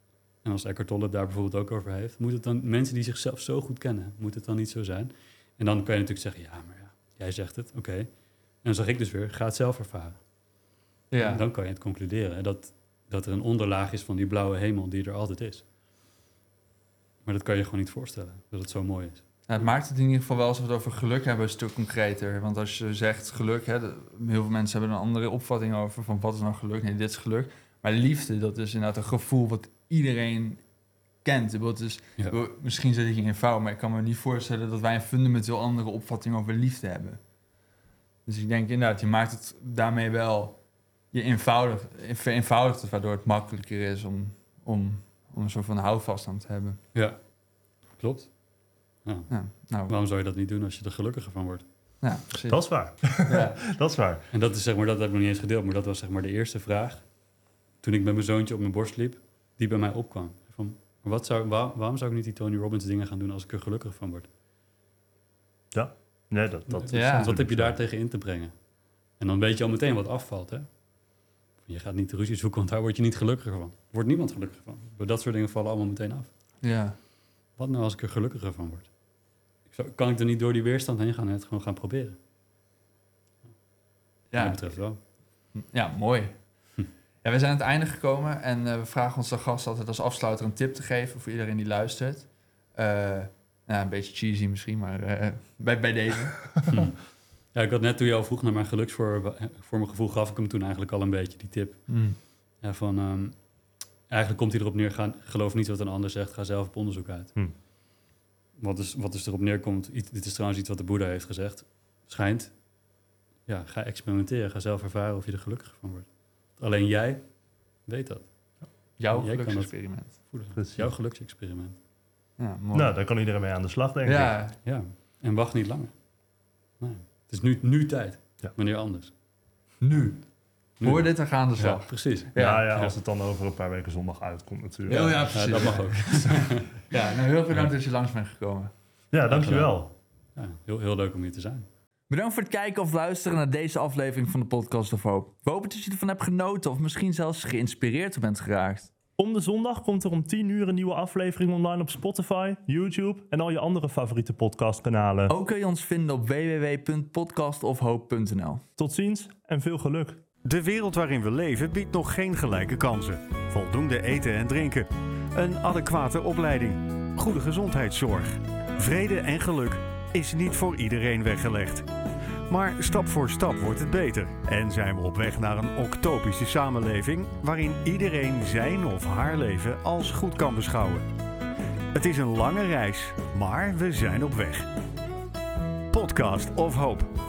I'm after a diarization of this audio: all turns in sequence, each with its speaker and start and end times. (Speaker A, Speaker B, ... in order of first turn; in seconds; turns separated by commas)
Speaker A: 0.4-10.2, Speaker B: 11.1-11.4, Speaker A: 11.2-15.6, Speaker A: 17.2-19.2, Speaker B: 19.5-30.6, Speaker B: 31.2-37.2, Speaker B: 38.2-40.6, Speaker B: 41.1-46.8, Speaker A: 46.9-47.2, Speaker A: 47.9-48.3, Speaker A: 49.0-49.3, Speaker B: 49.3-49.9, Speaker A: 49.9-51.6, Speaker B: 52.0-53.6, Speaker C: 52.5-54.2, Speaker A: 54.3-57.1, Speaker A: 57.8-64.3, Speaker C: 65.7-67.8, Speaker A: 66.7-68.5, Speaker B: 66.9-67.3, Speaker A: 69.2-70.7, Speaker A: 71.6-76.3, Speaker B: 76.6-77.0, Speaker A: 77.5-78.9, Speaker A: 79.7-82.2, Speaker B: 84.3-96.7, Speaker A: 84.4-85.0, Speaker A: 96.7-97.0, Speaker A: 97.5-101.9, Speaker B: 101.9-102.2, Speaker A: 102.6-103.4, Speaker A: 104.1-107.3, Speaker A: 108.6-112.5, Speaker A: 113.5-117.3, Speaker A: 117.8-118.3, Speaker A: 119.0-121.8, Speaker B: 119.0-120.2, Speaker C: 120.5-120.9, Speaker B: 122.4-122.9, Speaker C: 122.7-124.3, Speaker B: 124.0-124.6, Speaker A: 124.6-126.0, Speaker A: 126.8-129.1, Speaker B: 129.8-132.7, Speaker A: 130.8-132.9, Speaker C: 132.3-135.6, Speaker B: 134.9-138.7, Speaker A: 134.9-136.8, Speaker C: 139.1-139.9, Speaker A: 139.3-141.7, Speaker B: 142.1-148.9, Speaker C: 149.2-155.3, Speaker B: 155.3-158.6, Speaker C: 158.8-160.2, Speaker D: 160.4-171.9, Speaker D: 172.5-181.1, Speaker D: 181.9-184.7, Speaker D: 185.9-187.1